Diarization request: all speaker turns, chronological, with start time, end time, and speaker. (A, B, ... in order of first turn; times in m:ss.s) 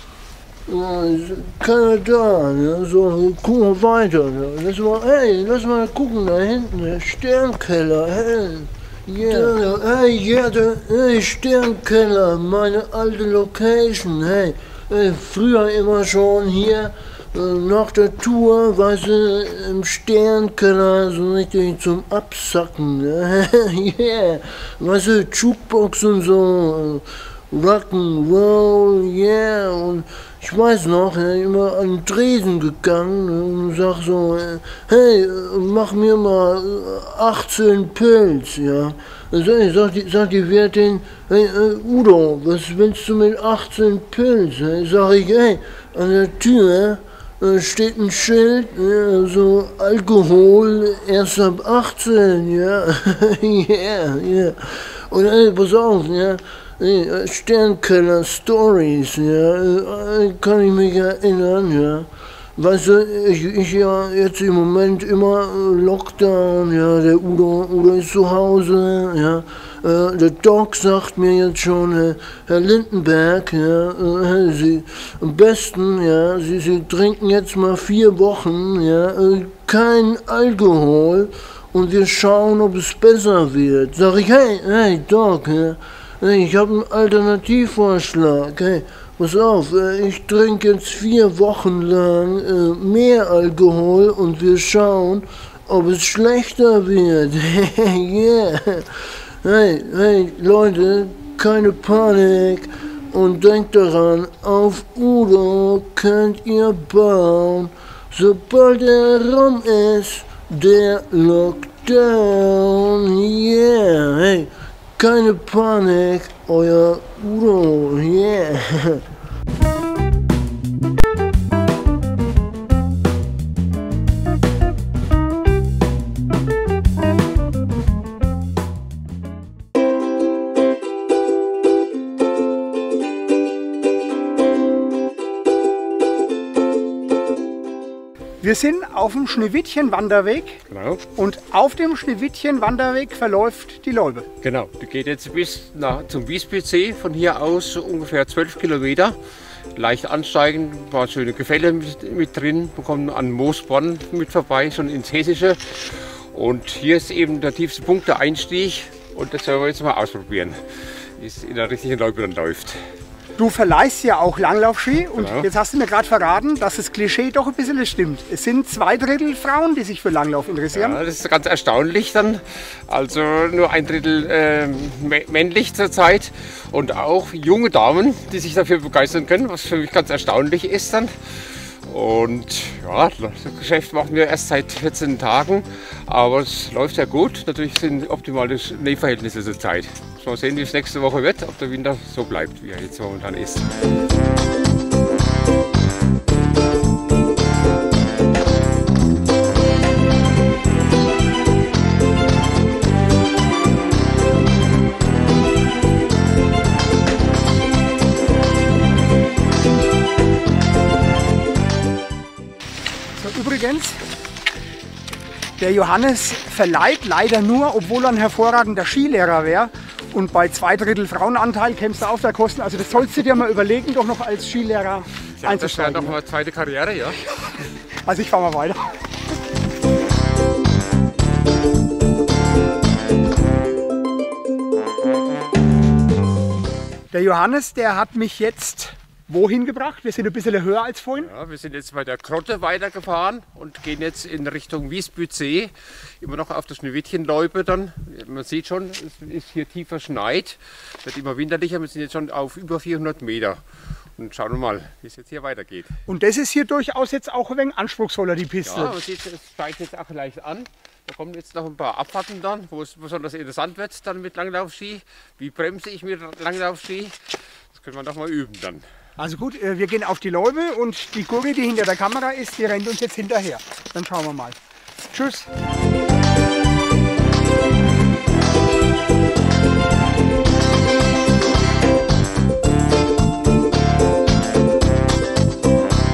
0:00.7-1:38.9 A
1:39.4-1:59.0 A
2:18.4-2:20.6 B
2:20.7-2:21.0 C
2:21.2-2:24.3 B
2:24.4-2:29.2 C
2:29.8-2:42.8 C
2:43.4-2:51.0 B
2:45.2-2:45.5 C
2:50.7-3:13.7 C
3:33.2-3:34.0 B
3:35.6-3:46.2 B
3:45.4-3:47.2 C
3:47.4-3:48.9 B
3:57.1-4:01.3 B
4:01.2-4:13.6 C
4:14.2-4:16.0 C
4:16.1-4:19.0 B
4:18.6-4:27.2 C
4:27.7-4:28.8 C
4:29.2-4:34.6 B
4:35.1-4:35.5 B